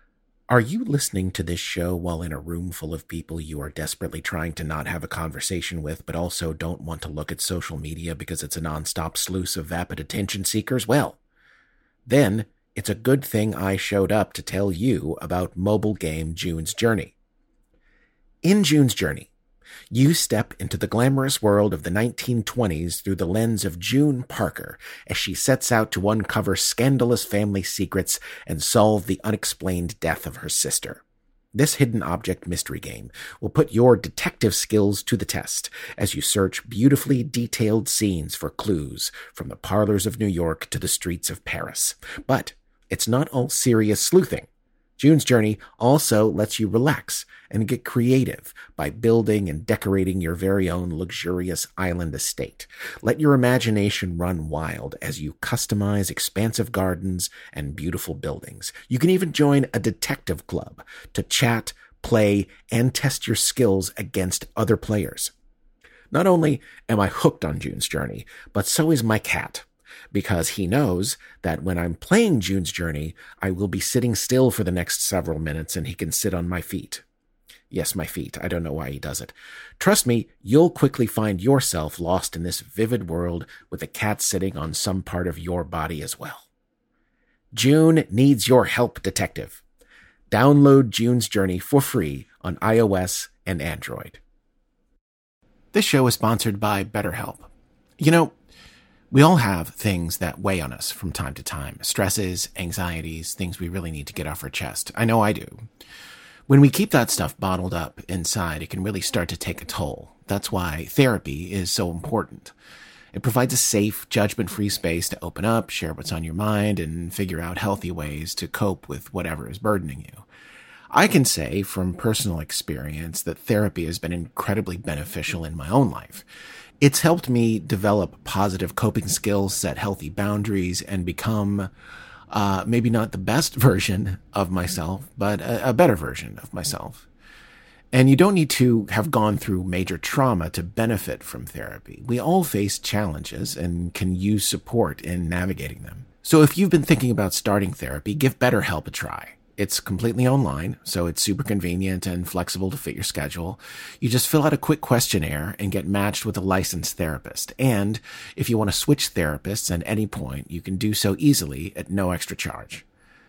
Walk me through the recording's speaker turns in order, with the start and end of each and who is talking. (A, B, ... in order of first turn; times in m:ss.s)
0:00.5-0:11.2 A
0:12.1-0:17.2 A
0:18.4-0:19.3 A
0:19.9-0:31.0 A
0:31.5-0:44.5 A
0:45.0-1:05.3 A
1:06.1-1:17.0 A
1:17.7-1:26.4 A
1:27.5-1:29.6 A
1:30.3-1:34.2 A
1:35.7-1:38.3 A
1:39.1-1:45.6 A
1:46.5-1:52.5 A
1:53.1-2:00.2 A
2:00.9-2:06.3 A
2:06.8-2:11.7 A
2:12.3-2:17.1 A
2:17.9-2:42.8 A